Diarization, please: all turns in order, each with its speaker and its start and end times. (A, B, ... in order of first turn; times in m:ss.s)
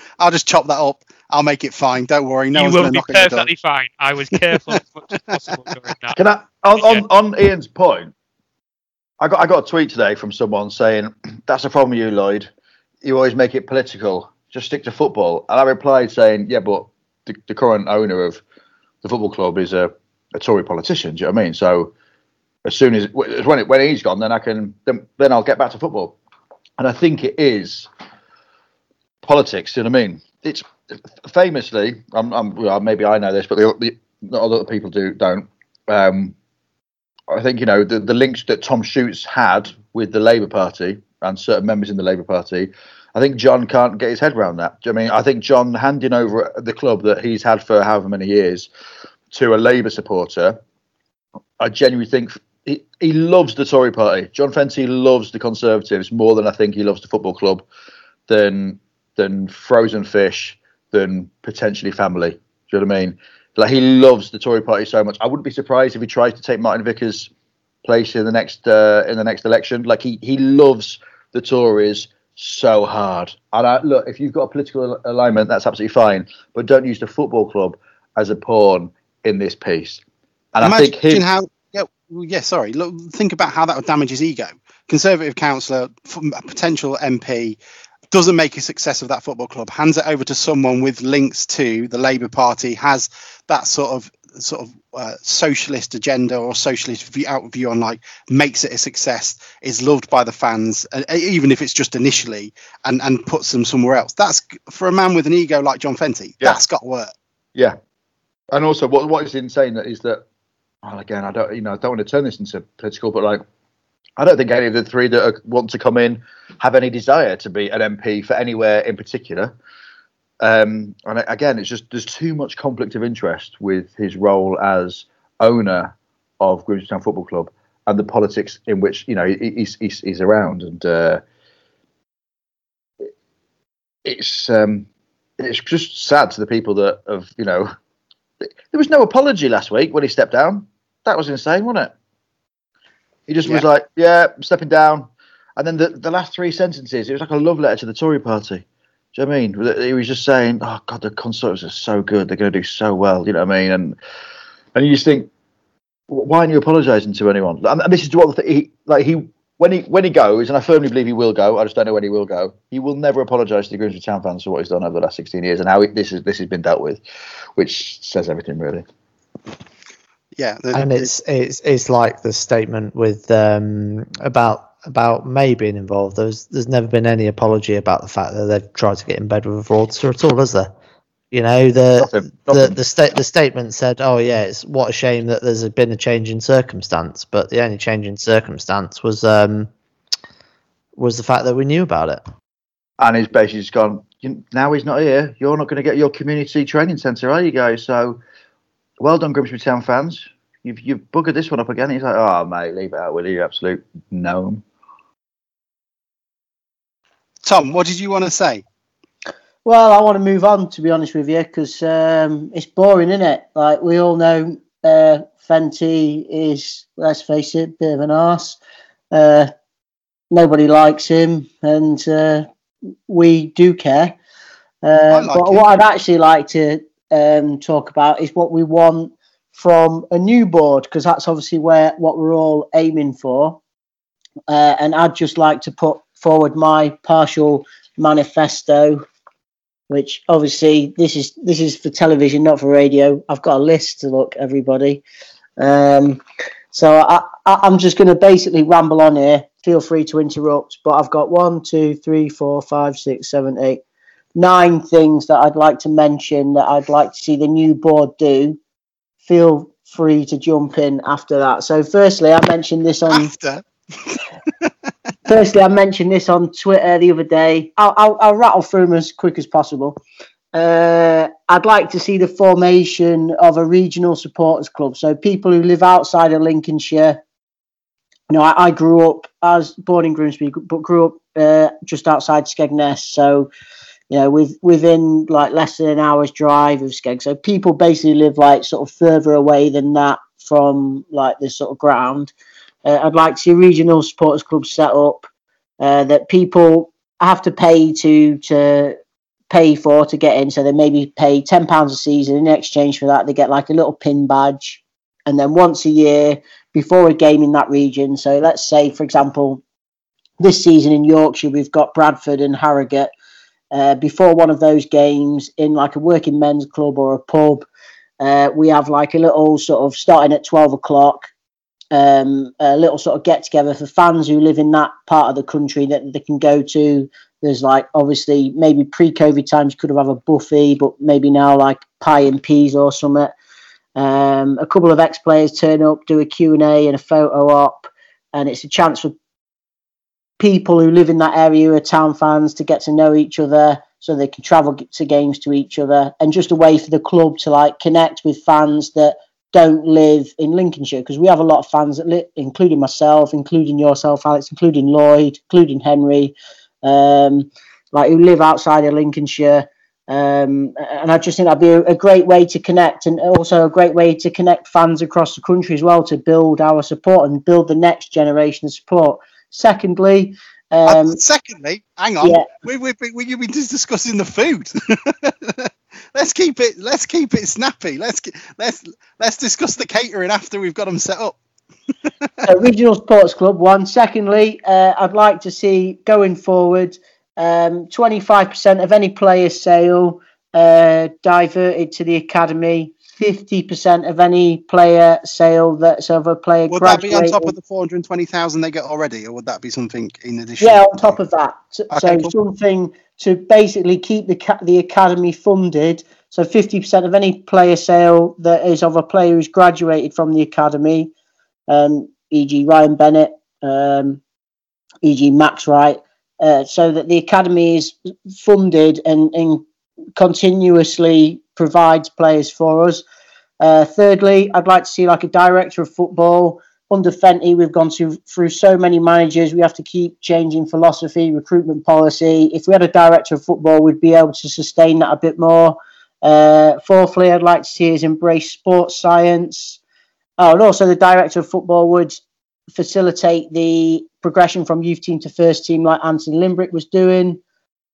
0:00.2-0:03.5 A
0:02.5-0:06.2 B
0:04.5-0:04.8 A
0:06.2-0:08.1 C
0:06.7-0:07.0 B
0:09.2-0:12.5 C
0:13.0-0:18.4 C
0:19.0-0:21.9 C
0:22.6-0:26.2 C
0:26.8-0:27.9 C
0:29.2-0:36.4 C
0:37.3-0:48.7 C
0:49.3-0:50.6 C
0:51.6-0:57.6 C
0:58.3-1:07.3 C
1:07.8-1:20.0 C
1:20.5-1:21.2 C
1:20.6-1:27.6 A
1:28.1-1:47.1 A
1:48.5-1:50.2 C
1:50.8-1:53.4 C
1:54.2-1:59.6 C
2:00.4-2:11.2 C
2:14.0-2:14.9 C
2:15.4-2:17.7 C
2:18.7-2:21.9 C
2:23.3-2:28.6 C
2:29.2-2:34.0 C
2:34.8-2:35.3 C
2:36.1-2:47.0 C
2:47.6-2:48.9 C
2:50.4-2:51.1 A
2:50.7-3:00.7 D
3:01.3-3:09.7 D
3:02.0-3:02.8 C
3:11.0-3:12.2 D
3:13.0-3:18.2 C
3:19.0-3:24.6 C
3:27.4-3:28.6 A
3:29.6-3:38.6 E
3:39.1-3:39.5 E
3:40.3-3:42.5 E
3:43.1-3:44.2 E
3:44.8-3:53.6 E
3:45.1-3:45.8 A
3:54.5-3:59.1 E
3:59.9-4:05.0 E
4:05.6-4:06.2 E
4:06.7-4:13.8 E
4:14.4-4:18.6 E
4:19.2-4:23.3 E
4:23.1-4:24.7 A
4:25.3-4:30.0 E
4:30.5-4:37.2 E
4:38.3-4:43.5 E
4:44.1-4:52.3 E
4:52.8-4:55.3 E
4:55.8-4:59.0 E
4:59.5-5:09.6 E
5:10.4-5:13.1 E
5:13.7-5:17.7 E
5:18.2-5:21.3 E
5:21.9-5:33.3 E
5:34.0-5:39.1 E
5:40.4-6:11.2 E
6:10.9-6:21.4 A
6:12.2-6:12.5 E
6:22.4-6:37.5 E
6:36.7-6:41.1 A
6:40.6-6:51.1 E
6:41.9-6:42.3 A
6:51.7-6:54.2 E
6:55.0-6:59.6 E
7:00.2-7:03.0 E
7:03.6-7:19.8 E
7:20.4-7:22.2 E
7:22.7-7:27.4 E